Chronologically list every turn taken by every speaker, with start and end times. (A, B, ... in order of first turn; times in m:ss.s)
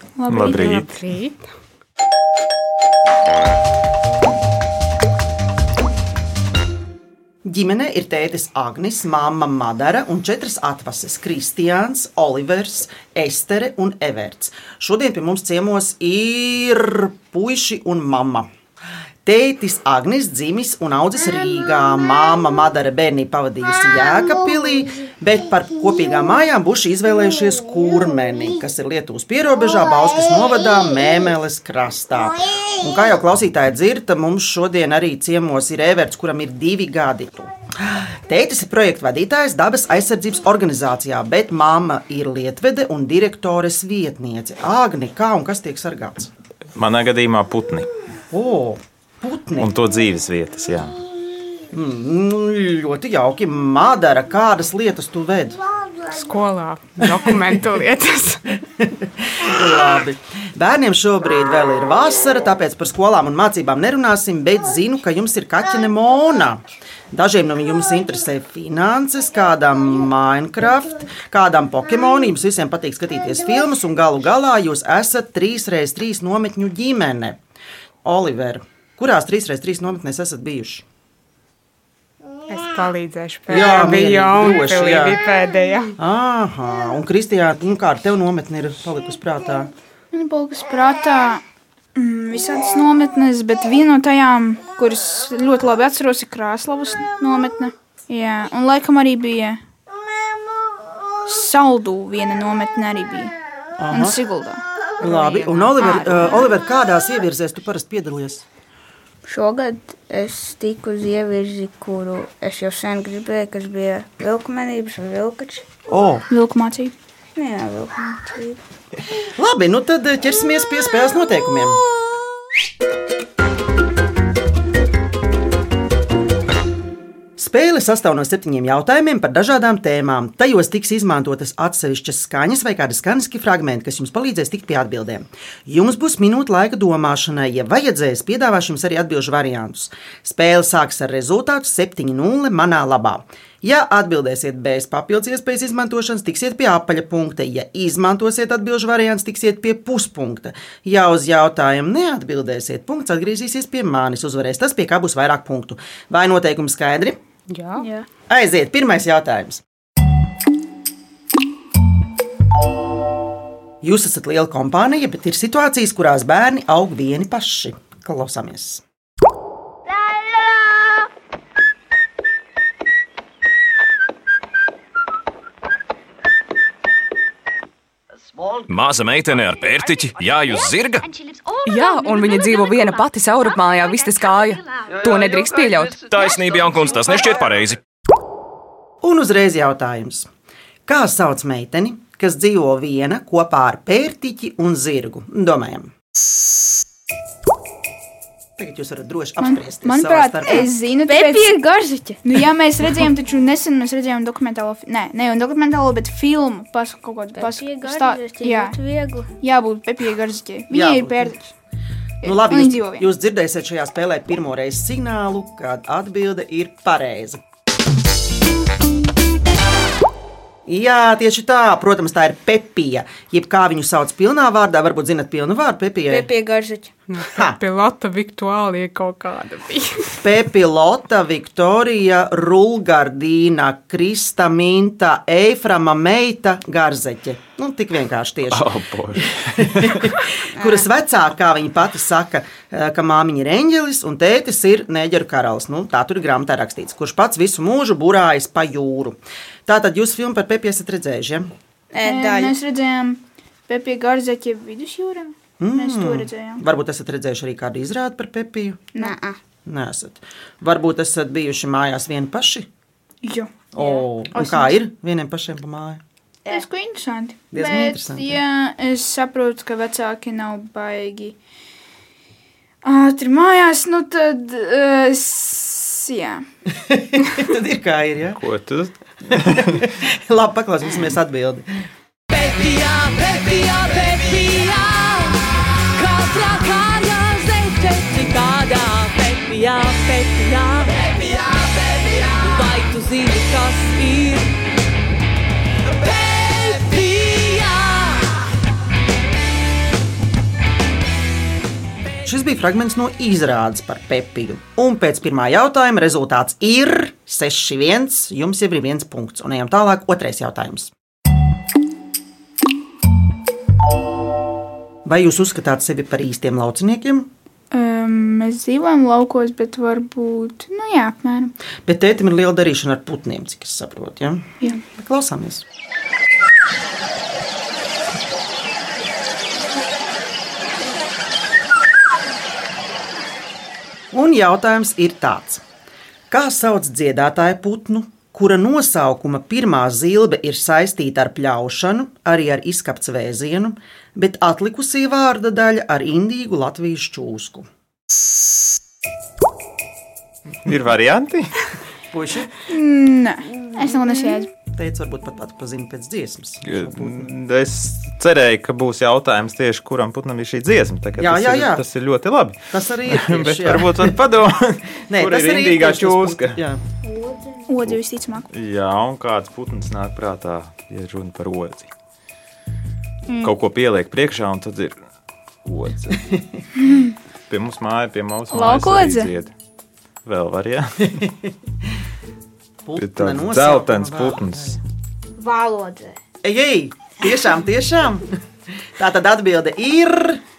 0:00.2-0:00.9 A
0:00.3-0:01.0 B
0:00.4-0:01.5 C
0:07.4-0:18.5 D
0:19.2-0:46.3 D
0:46.7-0:47.9 B
0:48.3-0:49.7 D
0:49.6-0:51.0 B
0:51.7-0:55.6 D
0:56.1-0:58.4 C
0:58.8-1:17.4 D
1:18.0-1:20.8 D
1:22.5-1:26.0 C
1:23.5-1:25.2 D
1:26.0-1:29.7 D
1:30.1-1:31.4 A
1:32.0-1:39.6 A
1:41.3-1:43.3 A
1:43.8-1:44.2 D
1:43.9-1:44.6 A
1:45.0-1:46.4 C
1:45.0-1:48.4 D
1:45.8-1:46.3 A
1:49.3-1:55.6 E
1:55.9-1:56.3 D
1:56.3-1:57.0 A
1:57.3-1:58.6 E
1:59.4-2:01.8 D
2:07.4-2:37.2 D
2:37.5-2:37.9 C
2:37.8-2:38.1 E
2:38.3-2:39.6 D
2:43.8-2:48.8 D
2:58.6-3:01.1 F
3:01.6-3:06.1 G
3:06.1-3:07.8 F
3:09.0-3:10.3 D
3:10.9-3:15.9 D
3:18.6-3:20.7 D
3:19.4-3:21.6 A
3:20.5-3:22.2 E
3:22.2-3:28.8 A
3:27.3-3:29.3 E
3:29.4-3:31.5 A
3:30.7-3:31.4 D
3:32.2-3:33.1 A
3:32.2-3:37.4 D
3:40.7-3:46.3 D
3:46.1-3:46.9 E
3:47.1-3:50.2 C
3:50.2-4:11.5 D
3:58.5-4:00.1 B
4:00.6-4:00.9 E
4:11.9-4:12.6 E
4:12.0-4:16.6 A
4:15.6-4:18.9 D
4:19.0-4:19.4 E
4:19.7-4:22.7 D
4:23.2-4:24.8 A
4:23.7-4:26.0 D
4:26.5-4:31.4 A
4:27.5-4:28.4 D
4:32.8-4:36.4 A
4:36.8-4:38.4 D
4:38.4-4:39.8 B
4:39.7-4:41.7 D
4:42.3-4:54.5 H
4:55.9-4:58.4 H
5:02.2-5:10.9 D
5:15.0-5:17.3 D
5:17.7-5:21.5 A
5:21.9-5:25.6 D
5:34.1-5:35.6 D
5:36.3-5:47.7 D
5:50.6-5:51.5 B
5:52.1-5:52.5 D
5:52.7-5:54.5 A
5:53.8-5:54.4 E
5:54.7-5:57.3 D
5:56.6-6:06.6 B
6:01.2-6:01.8 D
6:02.7-6:04.2 D
6:05.1-6:06.8 D
6:07.1-6:07.6 E
6:07.7-6:08.4 A
6:08.5-6:11.9 B
6:13.4-6:15.0 B
6:15.6-6:16.3 B
6:17.5-6:19.5 B
6:18.5-6:19.3 A
6:20.2-6:21.3 B
6:22.8-6:24.8 D
6:23.0-6:24.8 B
6:25.4-6:26.2 E
6:26.4-6:28.3 D
6:29.0-6:30.4 D